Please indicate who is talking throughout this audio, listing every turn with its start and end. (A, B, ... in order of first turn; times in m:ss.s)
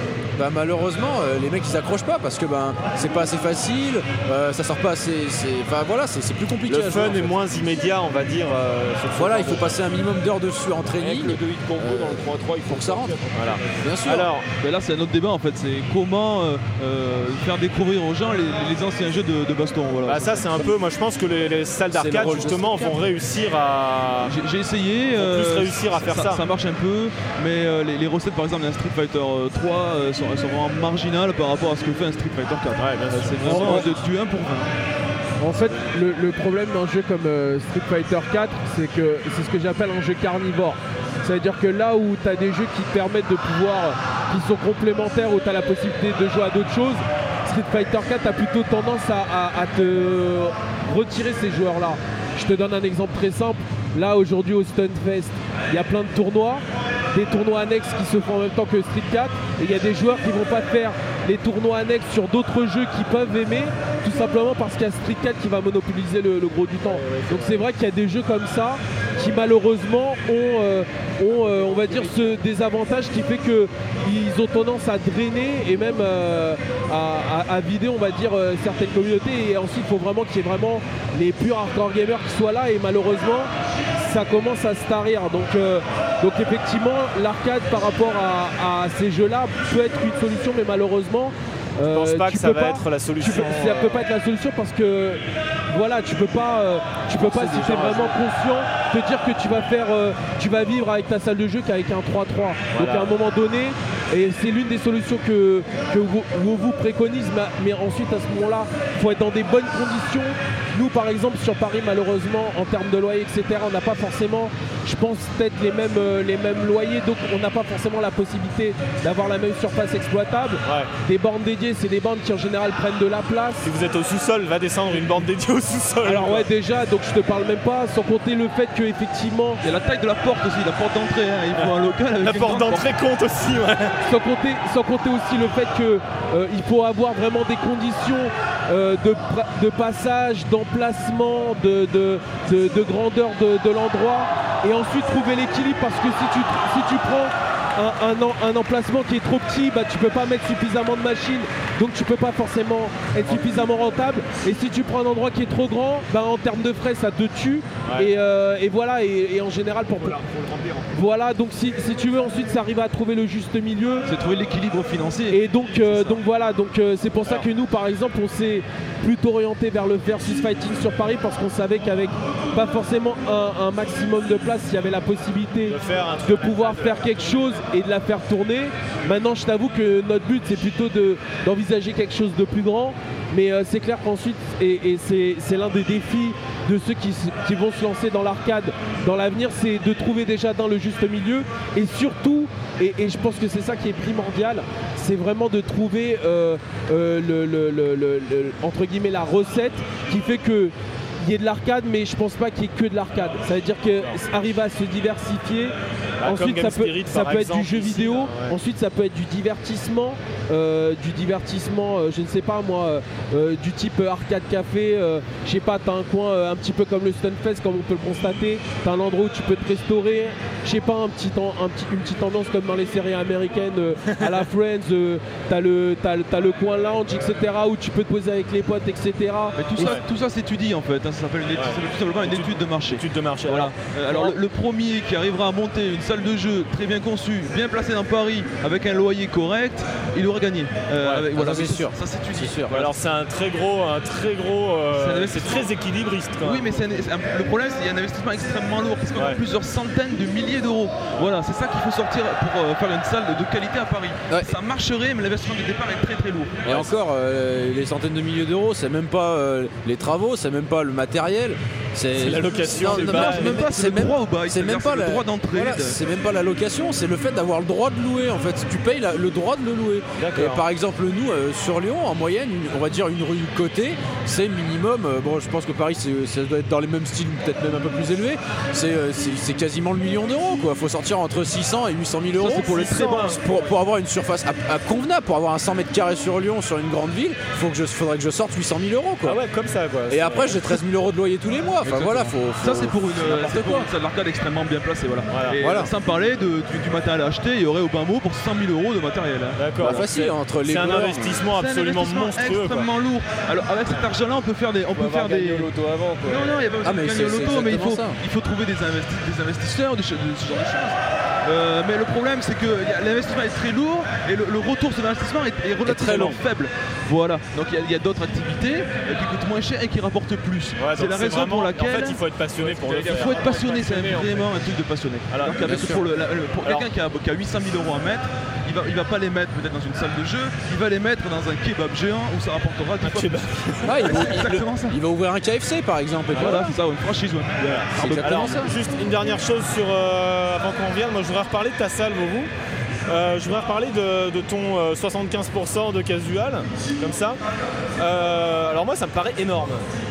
0:00.4-0:07.3 A
0:06.7-0:09.7 B
0:09.2-0:13.2 A
0:11.0-0:13.8 C
0:13.3-0:14.5 B
0:13.8-0:14.3 A
0:14.6-0:20.7 D
0:20.0-0:24.3 B
0:21.9-0:23.0 A
0:24.2-0:34.7 D
0:25.2-0:26.4 B
0:32.8-0:34.0 B
0:33.4-0:33.9 E
0:35.4-2:03.6 E
1:06.9-1:07.6 B
1:31.9-1:34.0 B
1:37.2-1:38.0 A
1:42.7-1:43.2 B
2:00.6-2:00.9 B
2:03.6-2:06.5 B
2:06.0-2:09.6 E
2:09.6-2:12.9 D
2:11.5-2:14.0 B
2:14.0-2:40.2 E
2:37.8-2:38.1 B
2:40.0-2:40.8 B
2:40.9-2:44.1 E
2:44.1-2:45.4 D
2:45.3-3:50.0 E
2:45.9-2:46.2 B
2:55.7-2:57.4 B
3:26.2-3:28.6 B
3:49.6-4:03.0 D
3:49.8-3:50.0 B
3:51.5-3:54.4 B
4:01.0-4:01.2 B
4:01.3-4:02.7 A
4:02.7-4:06.8 B
4:05.0-4:05.7 D
4:06.4-4:16.7 D
4:14.3-4:14.6 A
4:16.6-4:49.4 A
4:22.2-4:23.6 B
4:22.9-4:26.0 D
4:30.2-4:30.6 B
4:42.4-4:43.7 B
4:49.2-4:50.6 B
4:50.1-4:53.9 A
4:51.8-5:00.1 D
4:55.3-4:55.6 B
4:55.6-4:55.9 A
4:59.6-5:02.9 B
4:59.8-5:01.4 A
5:01.4-5:05.7 D
5:04.9-5:06.5 C
5:06.2-5:22.2 D
5:06.8-5:08.2 A
5:15.8-5:16.4 A
5:20.8-5:23.5 B
5:22.6-5:24.5 C
5:23.0-5:35.0 D
5:25.3-5:25.8 B
5:25.6-5:26.0 A
5:33.0-5:34.4 B
5:33.8-5:36.8 A
5:36.3-5:38.7 D
5:37.6-5:42.5 B
5:38.0-5:38.7 A
5:43.1-5:47.4 B
5:48.0-5:49.9 B